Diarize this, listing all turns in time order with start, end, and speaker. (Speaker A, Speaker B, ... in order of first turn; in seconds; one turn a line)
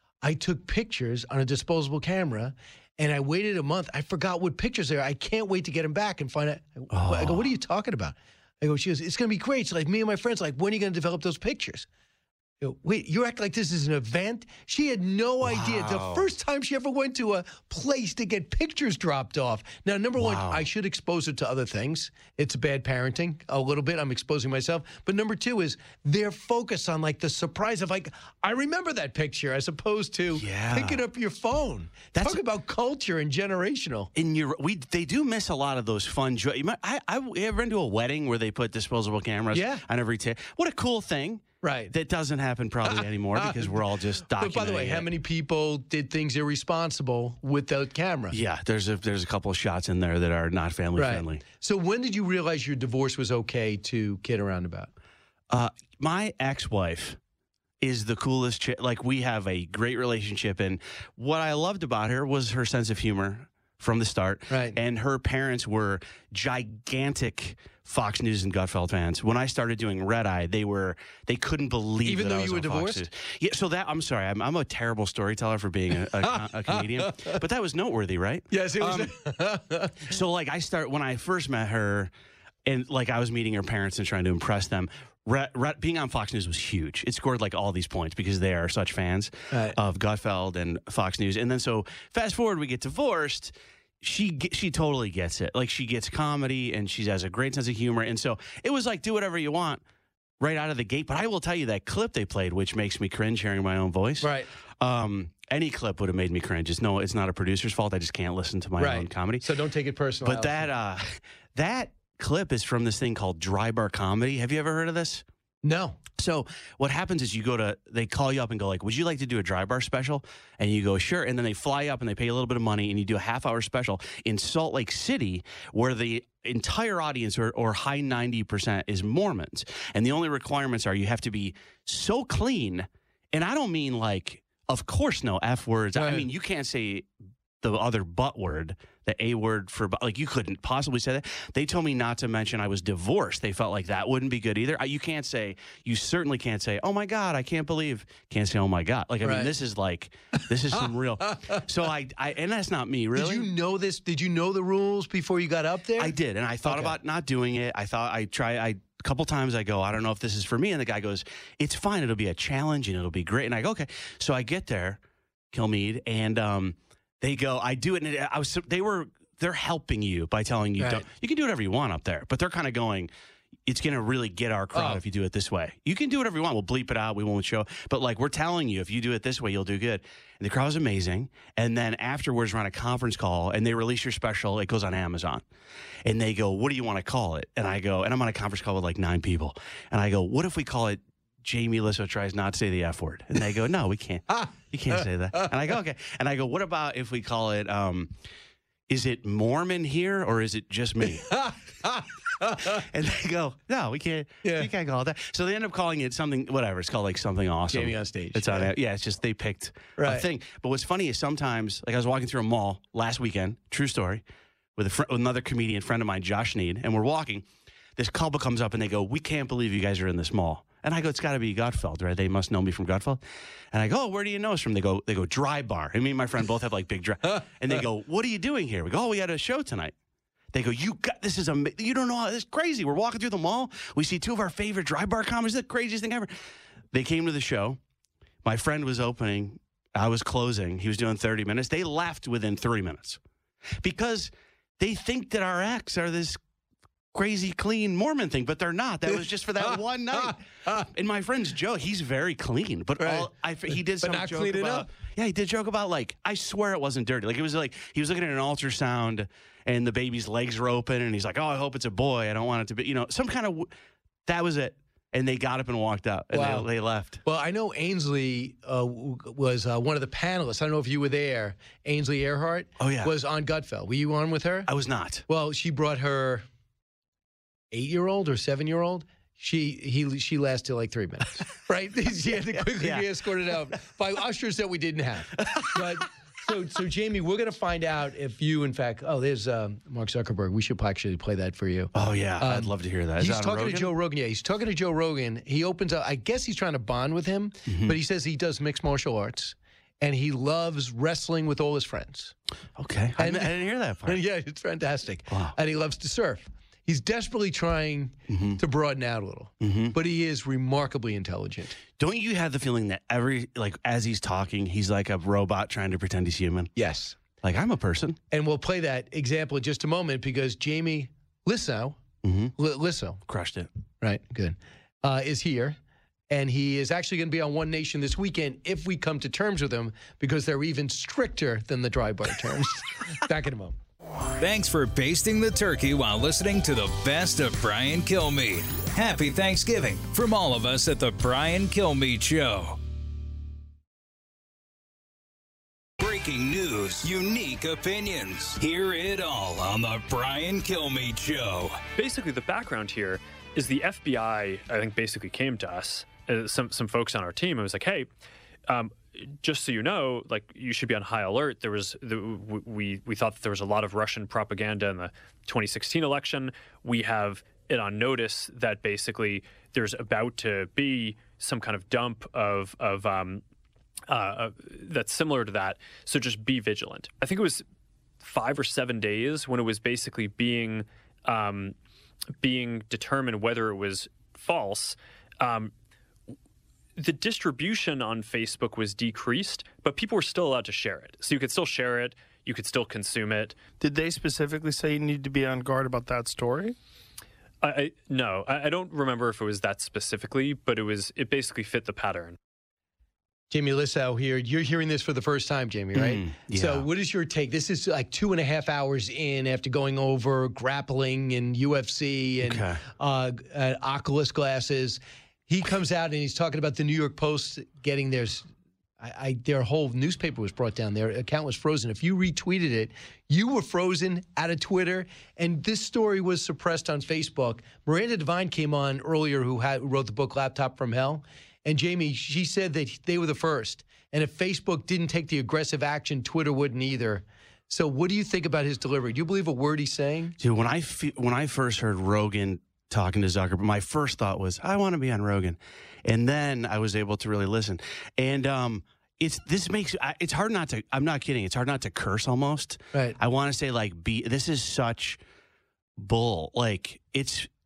Speaker A: 0.2-11.9
Speaker B: 6.9-7.5
Speaker A: 12.6-34.1
Speaker B: 15.4-16.3
Speaker B: 20.2-20.6
Speaker B: 30.3-31.0
Speaker B: 32.1-32.4
Speaker B: 34.1-45.1
Speaker A: 39.5-39.8
Speaker A: 41.6-41.9
Speaker A: 42.9-48.4
Speaker B: 48.3-51.4
Speaker A: 51.0-54.9
Speaker B: 55.5-57.2
Speaker B: 57.8-79.1
Speaker A: 64.5-64.8
Speaker A: 72.0-73.0
Speaker A: 76.2-77.4
Speaker A: 78.5-80.0
Speaker B: 80.1-82.1
Speaker B: 82.7-99.8
Speaker A: 89.5-89.8
Speaker B: 100.4-104.3
Speaker A: 104.2-104.5
Speaker B: 104.8-109.5
Speaker A: 108.8-110.7
Speaker B: 110.2-115.2
Speaker A: 115.6-116.0
Speaker B: 116.2-137.1
Speaker A: 136.0-136.3
Speaker B: 137.6-153.5
Speaker A: 149.2-149.5
Speaker A: 151.3-151.6
Speaker A: 153.2-157.0
Speaker B: 156.0-165.0
Speaker B: 165.5-173.1
Speaker A: 170.8-171.1
Speaker B: 173.7-185.4
Speaker A: 174.7-175.0
Speaker B: 186.1-198.1
Speaker A: 194.4-195.5
Speaker B: 198.9-201.2
Speaker A: 201.1-202.8
Speaker B: 202.8-214.2
Speaker A: 204.4-204.7
Speaker A: 207.7-208.7
Speaker A: 210.0-210.3
Speaker B: 214.8-223.2
Speaker B: 223.7-229.9
Speaker B: 230.5-236.3
Speaker B: 236.9-237.8
Speaker B: 238.4-243.2
Speaker B: 243.8-246.4
Speaker B: 247.1-250.4
Speaker A: 249.7-250.9
Speaker B: 250.9-263.7
Speaker A: 253.0-253.3
Speaker A: 254.0-254.9
Speaker B: 264.3-267.2
Speaker A: 266.3-266.7
Speaker A: 267.2-274.7
Speaker B: 272.8-273.1
Speaker B: 274.7-275.2
Speaker A: 275.3-276.4
Speaker A: 277.7-302.4
Speaker B: 282.6-283.1
Speaker B: 291.9-293.9
Speaker B: 297.7-297.9
Speaker B: 302.8-304.2
Speaker A: 303.2-311.8
Speaker B: 305.3-305.6
Speaker B: 308.3-308.6
Speaker B: 309.6-309.9
Speaker B: 311.9-316.7
Speaker A: 316.8-317.2
Speaker B: 317.4-318.2
Speaker A: 318.3-322.0
Speaker B: 322.2-322.5
Speaker A: 322.6-323.2
Speaker B: 323.3-323.7
Speaker A: 324.0-325.8
Speaker A: 326.3-333.8
Speaker C: 334.4-342.8
Speaker C: 346.0-351.8
Speaker D: 352.0-358.1
Speaker D: 358.7-373.4
Speaker D: 374.1-377.6
Speaker D: 378.2-381.8
Speaker D: 382.4-385.7
Speaker D: 387.0-393.6
Speaker E: 393.8-396.8
Speaker D: 397.6-402.4
Speaker A: 403.5-418.5
Speaker B: 405.9-406.9
Speaker B: 412.4-412.8
Speaker A: 419.0-440.4
Speaker B: 440.4-455.2
Speaker B: 456.0-457.5